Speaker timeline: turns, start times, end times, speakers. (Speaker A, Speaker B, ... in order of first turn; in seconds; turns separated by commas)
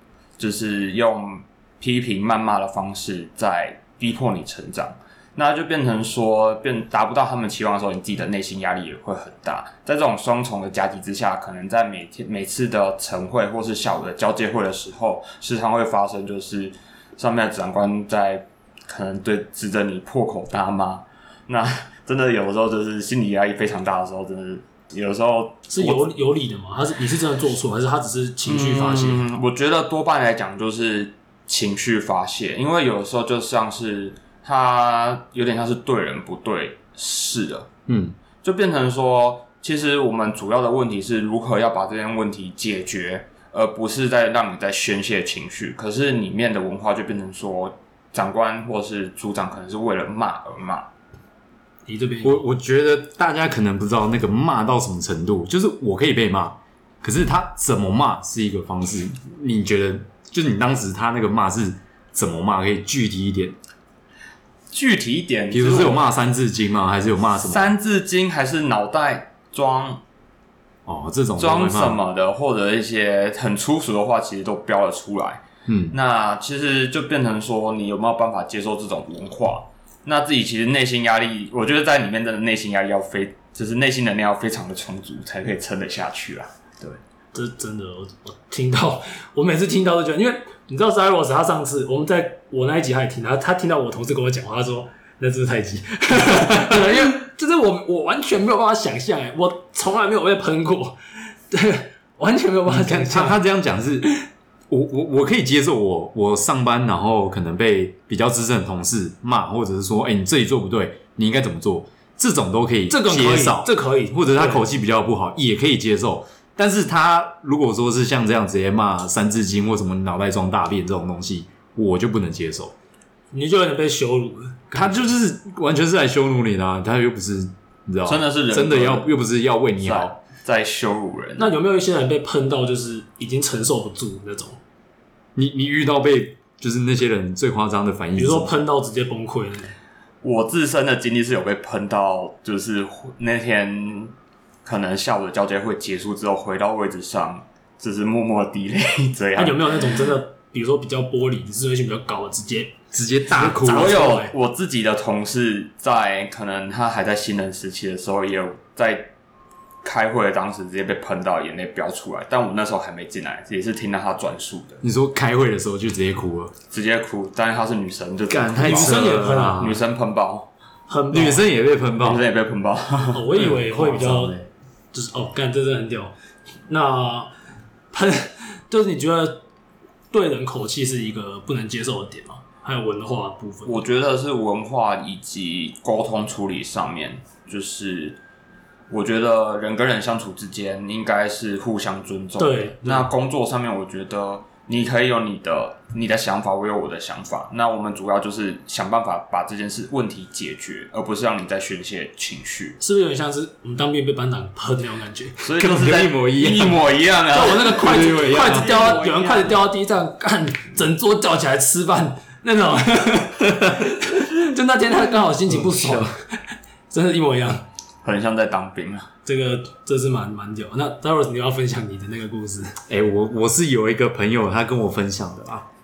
Speaker A: 0.4-26.1, Speaker B: 25.7-29.2, Speaker A: 28.4-37.7, Speaker C: 37.9-38.1, Speaker A: 38.4-50.9, Speaker B: 51.9-52.4, Speaker C: 52.2-63.6, Speaker A: 64.7-66.0, Speaker C: 65.5-67.7, Speaker A: 67.4-70.0, Speaker C: 70.8-72.0, Speaker A: 71.4-87.0, Speaker C: 75.7-76.0, Speaker B: 87.3-101.0, Speaker B: 101.5-103.4, Speaker C: 102.7-104.1, Speaker C: 104.7-122.7, Speaker B: 112.9-114.7, Speaker B: 123.3-125.1, Speaker C: 124.7-130.1, Speaker A: 128.1-129.1, Speaker A: 129.8-131.5, Speaker B: 131.4-134.6, Speaker C: 135.3-138.6, Speaker B: 138.2-139.7, Speaker A: 140.2-144.1, Speaker A: 144.6-150.0, Speaker B: 149.3-152.7, Speaker C: 152.9-154.0, Speaker B: 153.2-154.3, Speaker A: 153.6-159.1, Speaker A: 159.8-164.8, Speaker C: 164.8-166.5, Speaker A: 166.7-170.5, Speaker C: 168.3-169.8, Speaker B: 168.6-169.6, Speaker B: 170.9-171.4, Speaker C: 171.1-172.2, Speaker A: 171.9-173.3, Speaker B: 173.1-174.3, Speaker C: 173.3-174.5, Speaker B: 174.9-176.1, Speaker B: 176.7-177.3, Speaker B: 177.9-179.4, Speaker B: 180.1-183.8, Speaker A: 183.6-188.2, Speaker A: 188.9-202.8, Speaker B: 192.4-193.1, Speaker B: 202.8-205.4, Speaker A: 205.4-209.6, Speaker C: 205.6-206.8, Speaker B: 207.3-216.4, Speaker C: 207.6-208.9, Speaker C: 215.5-216.1, Speaker B: 216.9-217.6, Speaker A: 218.0-219.1, Speaker B: 219.2-222.8, Speaker C: 222.9-225.7